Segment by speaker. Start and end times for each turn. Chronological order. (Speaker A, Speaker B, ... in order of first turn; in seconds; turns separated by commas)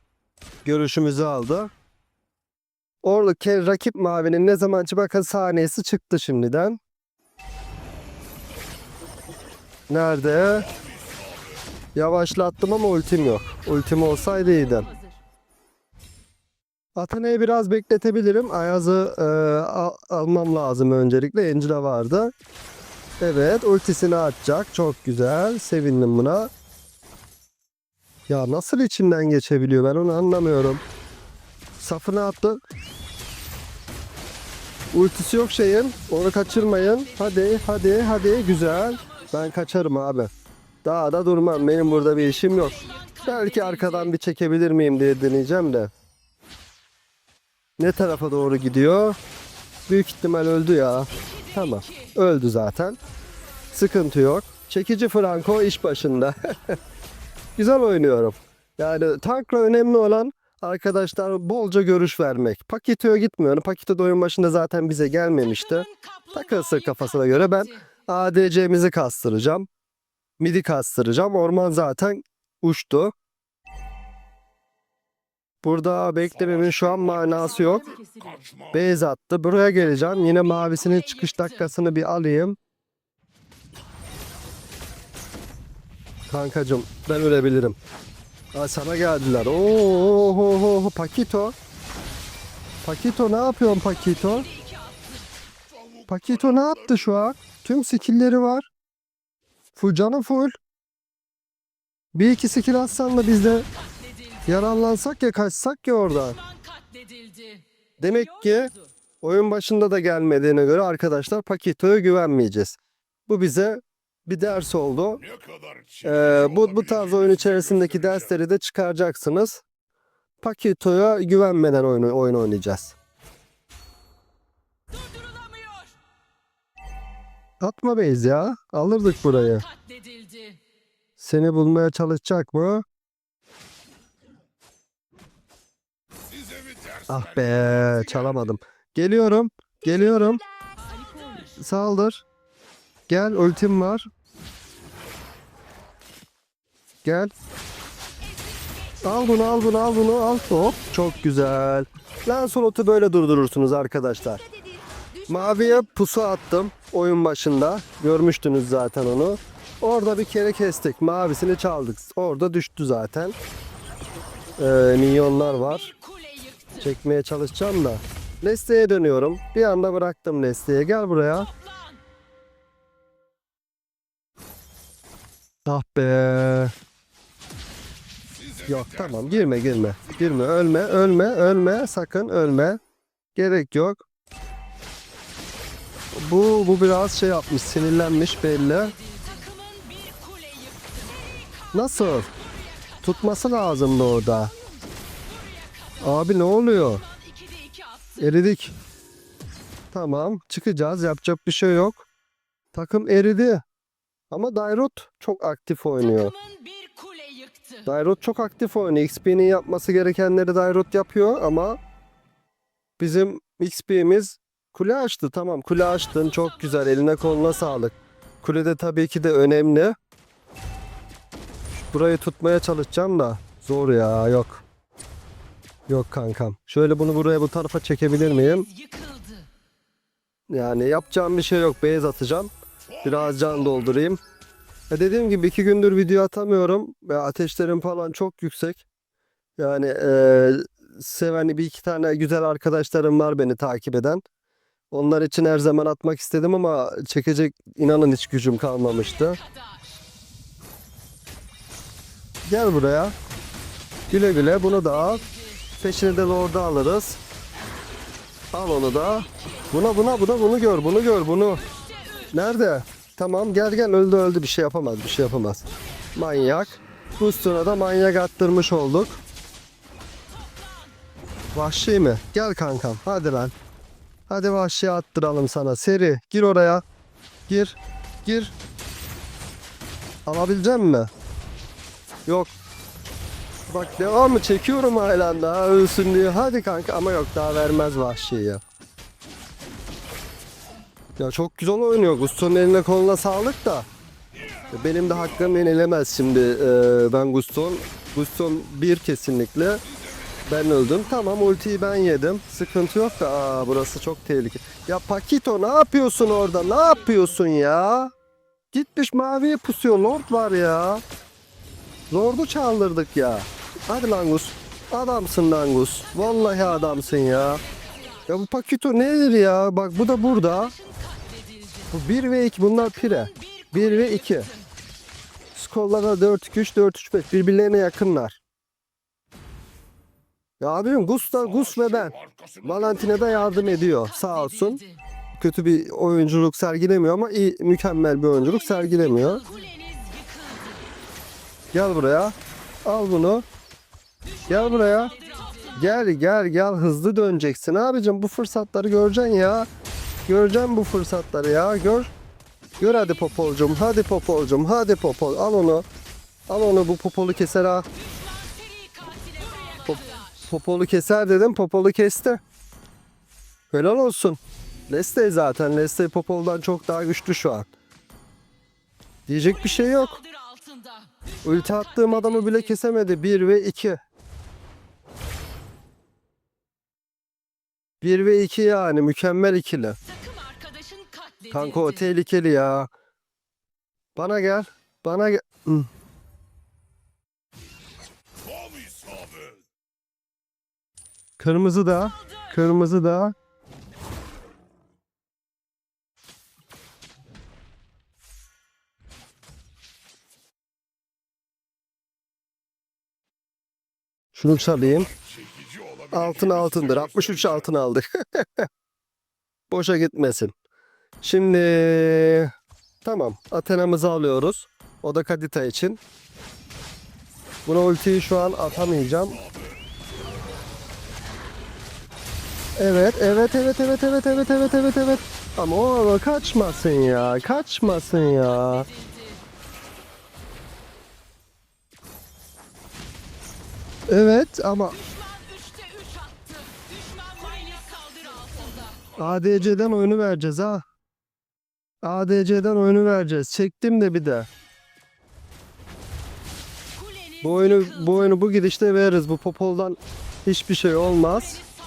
Speaker A: 0.7-1.7, Speaker A: 3.0-6.8, Speaker A: 9.9-10.7, Speaker A: 11.9-14.9, Speaker A: 17.0-22.3, Speaker A: 23.2-26.5, Speaker A: 28.3-30.8, Speaker A: 31.8-32.6, Speaker A: 34.9-40.3, Speaker A: 40.8-45.9, Speaker A: 47.8-49.2, Speaker A: 49.9-53.0, Speaker A: 53.7-56.8, Speaker A: 57.6-69.7, Speaker A: 70.4-73.1, Speaker A: 75.6-78.0, Speaker B: 78.0-78.6, Speaker A: 78.7-82.6, Speaker A: 86.3-87.8, Speaker A: 88.5-91.5, Speaker A: 92.8-94.5, Speaker A: 96.1-98.7, Speaker A: 99.8-100.5, Speaker A: 102.1-103.7, Speaker A: 104.5-106.4, Speaker C: 107.0-107.5, Speaker A: 108.0-115.2, Speaker B: 115.4-116.0, Speaker A: 116.0-119.6, Speaker A: 120.4-123.0, Speaker A: 127.6-129.7, Speaker A: 131.2-132.8, Speaker B: 136.3-137.1, Speaker A: 137.1-140.4, Speaker A: 141.6-142.2, Speaker A: 143.1-144.1, Speaker A: 147.0-147.3, Speaker A: 149.0-154.4, Speaker A: 155.3-163.4, Speaker A: 164.6-165.9, Speaker A: 166.8-171.5, Speaker A: 175.7-176.7, Speaker A: 178.7-182.8, Speaker A: 183.3-184.0, Speaker A: 186.1-189.0, Speaker C: 189.4-190.6, Speaker A: 191.7-192.3, Speaker A: 193.0-194.5, Speaker A: 196.0-197.1, Speaker A: 198.2-198.8, Speaker A: 199.9-202.1, Speaker A: 202.7-203.6, Speaker A: 204.3-206.3, Speaker C: 206.6-207.6, Speaker A: 207.8-211.8, Speaker A: 213.0-220.0, Speaker A: 221.7-224.6, Speaker A: 225.9-228.7, Speaker C: 229.0-229.4, Speaker A: 230.5-234.2, Speaker A: 234.9-238.8, Speaker A: 239.6-244.2, Speaker A: 244.9-249.4, Speaker A: 252.5-253.2, Speaker A: 254.1-255.3, Speaker A: 255.8-257.2, Speaker A: 258.5-261.7, Speaker A: 262.3-269.2, Speaker A: 271.5-273.5, Speaker A: 274.3-276.8, Speaker A: 277.5-278.6, Speaker A: 280.3-281.1, Speaker A: 282.3-282.5, Speaker A: 283.7-288.6, Speaker A: 291.2-293.9, Speaker A: 294.7-299.9, Speaker A: 300.5-308.1, Speaker A: 308.7-311.0, Speaker A: 312.1-317.6, Speaker A: 318.3-320.8, Speaker A: 321.9-324.5, Speaker A: 325.6-328.4, Speaker A: 330.6-334.8, Speaker B: 332.2-332.6, Speaker A: 335.4-339.6, Speaker C: 339.7-340.5, Speaker A: 341.7-342.3, Speaker A: 342.9-343.4, Speaker A: 344.5-349.7, Speaker A: 350.3-352.1, Speaker A: 352.8-355.9, Speaker A: 356.5-357.9, Speaker C: 358.5-359.7, Speaker A: 359.8-362.4, Speaker A: 363.7-367.7, Speaker A: 369.3-370.2, Speaker C: 370.6-371.0, Speaker A: 371.4-374.0, Speaker A: 378.0-380.0, Speaker C: 380.5-381.2, Speaker A: 381.5-382.9, Speaker A: 384.1-385.9, Speaker B: 388.5-389.5, Speaker A: 391.4-393.3, Speaker A: 404.3-405.1, Speaker B: 405.3-406.0, Speaker A: 406.1-408.7, Speaker A: 409.7-410.5, Speaker A: 411.2-412.5, Speaker A: 413.0-416.0, Speaker A: 417.7-419.4, Speaker A: 422.8-428.9, Speaker A: 434.1-435.0, Speaker C: 435.5-438.8, Speaker A: 439.1-440.8, Speaker A: 442.0-444.5, Speaker A: 447.4-451.6